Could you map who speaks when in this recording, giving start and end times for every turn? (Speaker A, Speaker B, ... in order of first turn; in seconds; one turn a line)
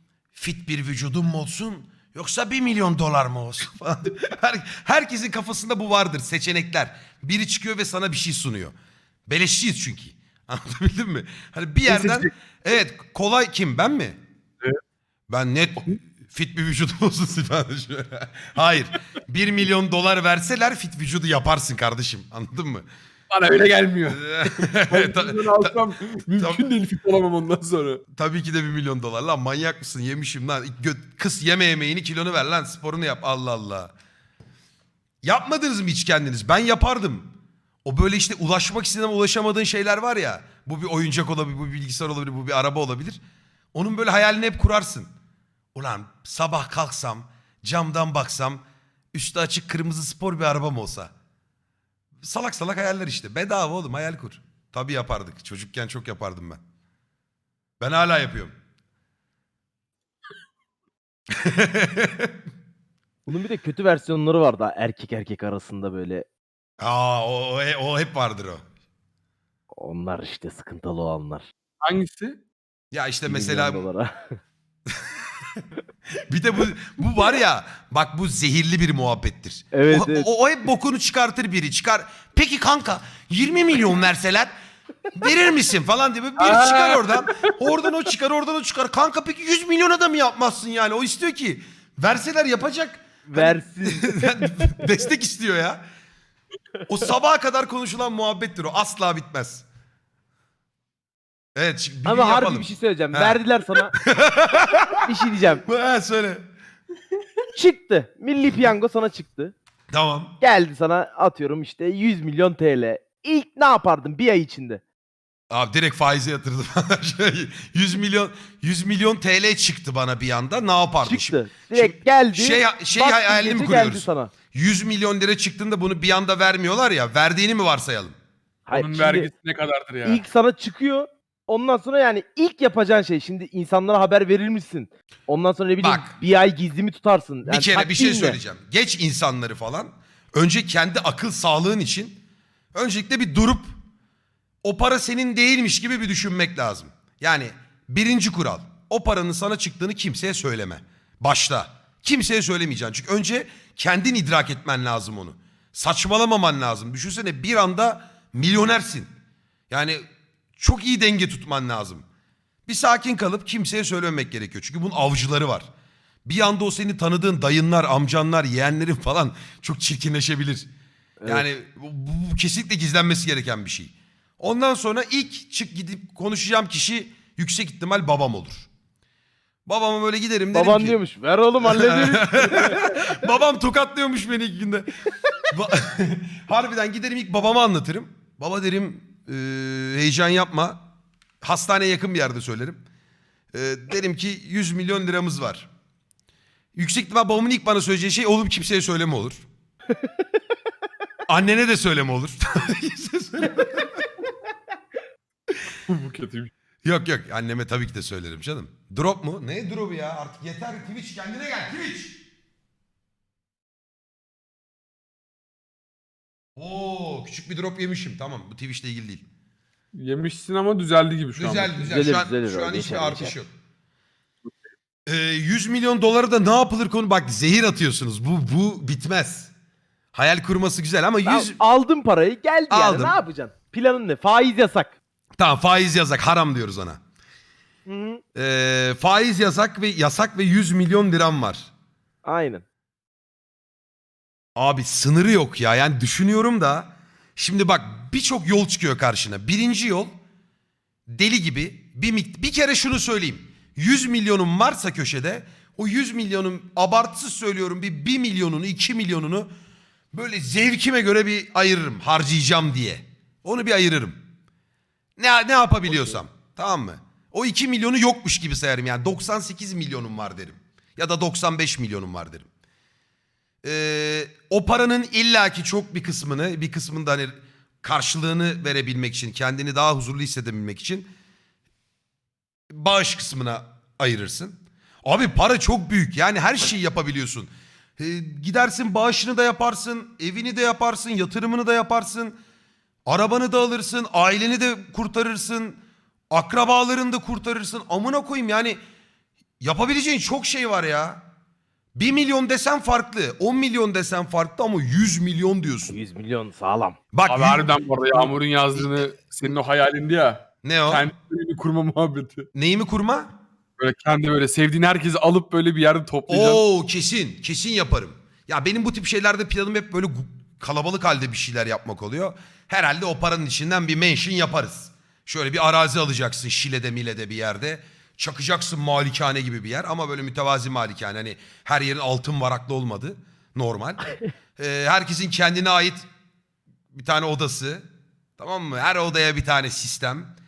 Speaker A: 0.3-8.7
Speaker A: 9.3-14.2
Speaker B: 11.9-12.3
Speaker A: 15.3-22.9
Speaker B: 23.3-28.0
Speaker A: 24.1-25.7
Speaker A: 26.4-26.6
Speaker A: 28.2-33.9
Speaker A: 35.2-37.3
Speaker A: 37.8-43.2
Speaker A: 43.7-45.1
Speaker A: 45.8-48.6
Speaker A: 49.1-51.1
Speaker A: 52.2-56.6
Speaker A: 57.8-58.5
Speaker A: 61.3-62.3
Speaker C: 63.3-66.2
Speaker A: 66.8-68.6
Speaker C: 69.8-71.5
Speaker B: 71.8-72.4
Speaker A: 72.9-73.9
Speaker C: 73.2-74.1
Speaker A: 76.3-84.5
Speaker C: 79.7-80.3
Speaker A: 85.1-95.8
Speaker B: 86.4-87.5
Speaker C: 93.3-94.8
Speaker A: 96.9-99.6
Speaker A: 101.6-103.4
Speaker C: 102.0-103.9
Speaker A: 104.0-105.0
Speaker C: 105.0-105.6
Speaker A: 105.6-106.4
Speaker C: 107.5-109.5
Speaker A: 109.9-110.3
Speaker C: 110.4-114.8
Speaker A: 115.5-128.1
Speaker C: 121.0-124.3
Speaker C: 128.7-129.3
Speaker B: 128.7-130.2
Speaker C: 130.0-138.4
Speaker A: 135.8-136.1
Speaker A: 137.4-142.2
Speaker A: 142.7-143.7
Speaker A: 144.6-159.1
Speaker A: 159.7-160.0
Speaker A: 160.6-162.0
Speaker A: 162.7-165.7
Speaker A: 166.2-170.7
Speaker A: 171.3-178.7
Speaker A: 179.7-181.0
Speaker C: 180.5-183.0
Speaker A: 181.6-190.8
Speaker A: 191.4-192.8
Speaker A: 193.5-195.7
Speaker A: 196.7-199.4
Speaker A: 201.3-204.1
Speaker B: 205.9-206.5
Speaker A: 206.8-212.2
Speaker A: 216.6-219.2
Speaker B: 219.9-221.8
Speaker A: 221.3-223.5
Speaker C: 221.8-223.3
Speaker A: 225.1-229.5
Speaker A: 230.1-231.6
Speaker C: 231.2-234.9
Speaker A: 232.7-233.2
Speaker A: 235.4-237.0
Speaker C: 237.9-238.2
Speaker A: 238.3-241.7
Speaker C: 242.2-242.6
Speaker A: 244.6-250.1
Speaker A: 251.1-259.5
Speaker A: 260.1-264.2
Speaker A: 265.2-272.5
Speaker A: 273.6-281.1
Speaker A: 282.7-292.4
Speaker A: 293.1-295.8
Speaker A: 296.3-298.8
Speaker A: 299.6-301.2
Speaker A: 301.9-306.0
Speaker C: 305.9-307.0
Speaker A: 307.1-308.3
Speaker B: 307.3-312.5
Speaker A: 310.6-311.1
Speaker A: 312.6-313.3
Speaker B: 313.8-316.6
Speaker A: 316.3-336.0
Speaker A: 336.9-337.9
Speaker A: 338.4-340.3